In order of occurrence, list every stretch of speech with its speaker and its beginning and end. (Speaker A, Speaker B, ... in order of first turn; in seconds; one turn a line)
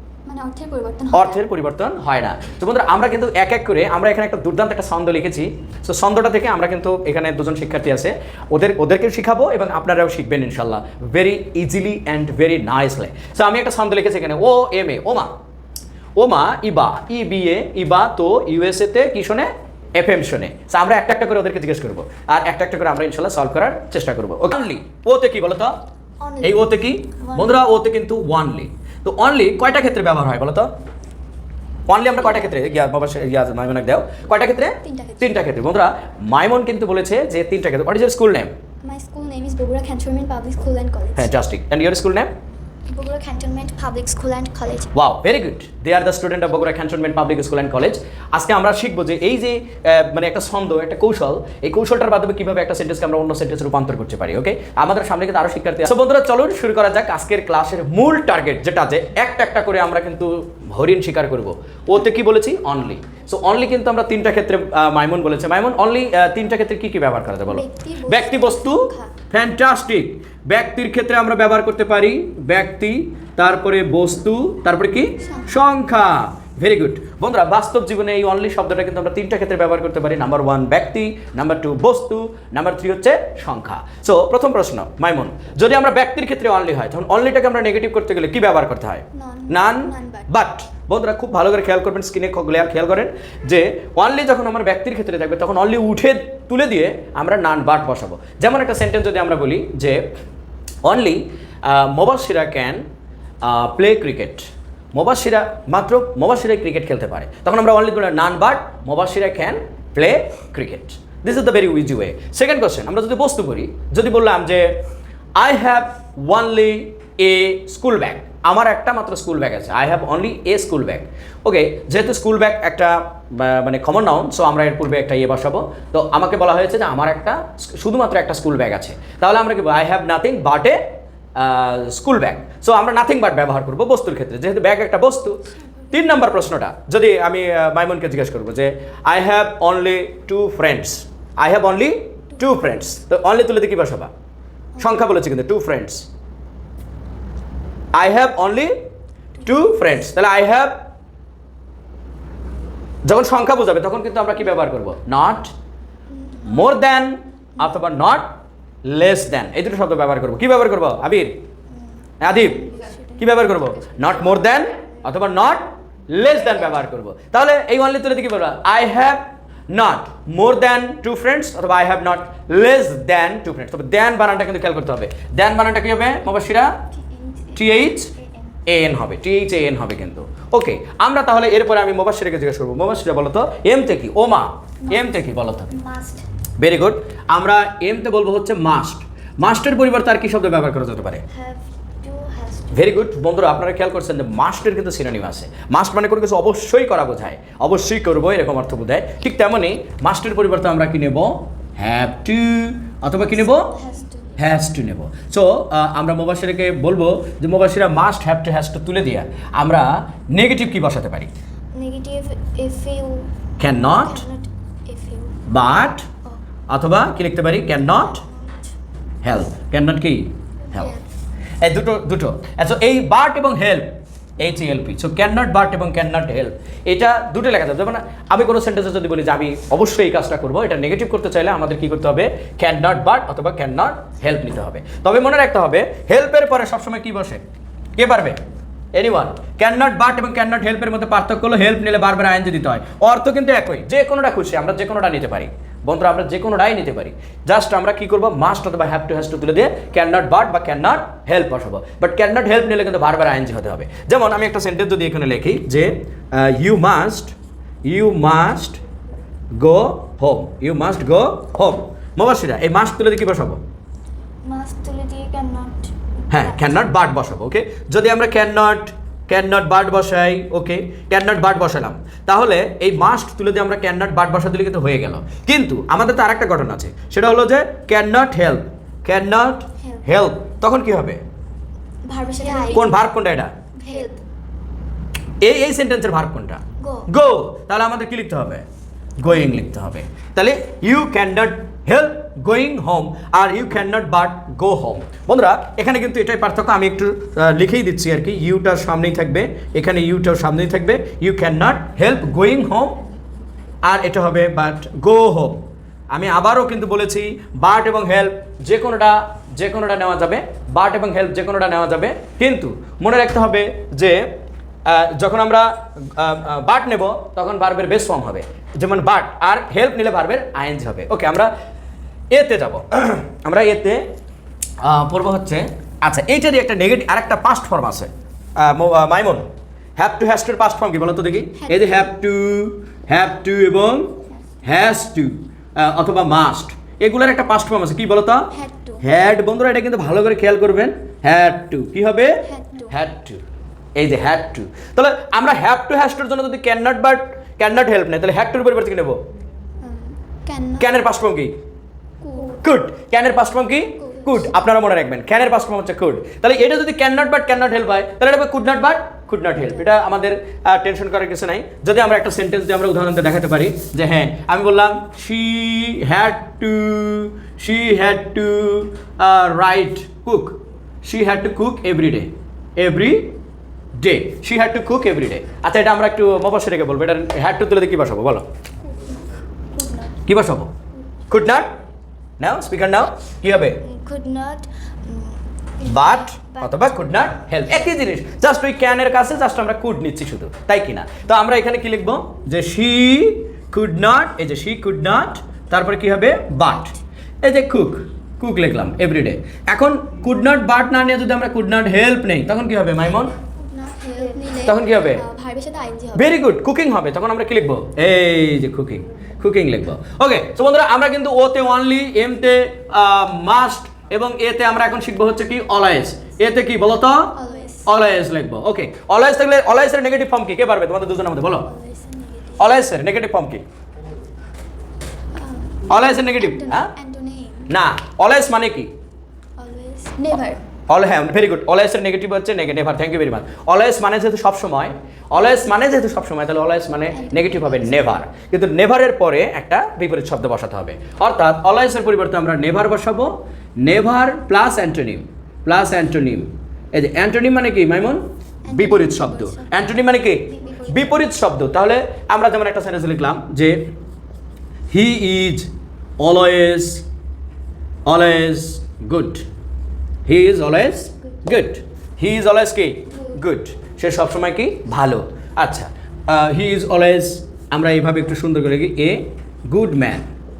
Speaker A: 0.2-1.4
Speaker B: 1.1-15.3
Speaker B: 16.2-25.7
Speaker A: 26.2-27.6
Speaker B: 26.4-30.7
Speaker B: 31.9-38.5
Speaker A: 34.7-35.5
Speaker A: 38.8-41.3
Speaker B: 41.1-42.3
Speaker A: 42.9-44.9
Speaker B: 44.9-100.1
Speaker A: 67.5-69.1
Speaker A: 75.2-75.5
Speaker A: 89.1-90.3
Speaker B: 100.8-102.8
Speaker B: 103.4-114.8
Speaker B: 115.4-130.8
Speaker B: 131.3-144.1
Speaker B: 144.8-146.1
Speaker A: 144.8-145.0
Speaker B: 147.9-148.7
Speaker B: 149.4-150.8
Speaker B: 153.0-155.5
Speaker A: 156.1-156.7
Speaker B: 156.4-161.4
Speaker A: 161.7-164.4
Speaker B: 162.2-176.8
Speaker A: 176.9-178.6
Speaker B: 177.5-178.1
Speaker B: 178.7-185.7
Speaker A: 184.9-186.2
Speaker B: 186.6-191.2
Speaker A: 191.3-193.1
Speaker B: 192.7-203.7
Speaker A: 203.1-204.4
Speaker B: 204.4-211.3
Speaker A: 211.7-215.4
Speaker B: 213.6-214.2
Speaker B: 215.5-216.1
Speaker B: 216.7-218.2
Speaker A: 217.9-218.7
Speaker B: 219.2-220.9
Speaker A: 220.7-221.0
Speaker B: 221.6-237.4
Speaker B: 238.0-238.4
Speaker B: 238.9-258.8
Speaker B: 259.5-263.6
Speaker A: 264.4-266.9
Speaker B: 266.3-281.2
Speaker A: 279.8-280.2
Speaker A: 282.1-283.0
Speaker B: 282.7-283.5
Speaker A: 283.8-284.2
Speaker B: 285.4-288.6
Speaker A: 286.8-287.1
Speaker B: 289.2-303.0
Speaker B: 303.8-314.3
Speaker B: 314.9-321.5
Speaker B: 322.3-324.0
Speaker B: 324.8-343.4
Speaker A: 331.6-332.1
Speaker A: 338.5-339.0
Speaker A: 342.4-342.9
Speaker B: 343.9-349.2
Speaker A: 349.8-350.9
Speaker B: 350.8-351.5
Speaker A: 352.2-352.6
Speaker B: 352.6-373.3
Speaker A: 353.9-354.5
Speaker B: 374.0-378.4
Speaker A: 378.8-379.2
Speaker A: 379.7-380.2
Speaker B: 380.2-380.7
Speaker B: 381.3-381.7
Speaker B: 382.4-383.8
Speaker A: 383.8-387.9
Speaker B: 385.8-403.3
Speaker A: 403.6-406.4
Speaker B: 404.6-405.2
Speaker B: 406.1-421.7
Speaker A: 417.4-418.0
Speaker A: 421.6-422.7
Speaker B: 422.6-423.6
Speaker A: 425.3-427.7
Speaker B: 425.9-426.9
Speaker B: 427.7-428.9
Speaker A: 429.6-430.6
Speaker B: 430.9-453.8
Speaker A: 437.1-438.3
Speaker A: 448.6-450.0
Speaker A: 450.5-451.2
Speaker B: 454.9-457.0
Speaker B: 458.1-459.4
Speaker B: 460.2-470.3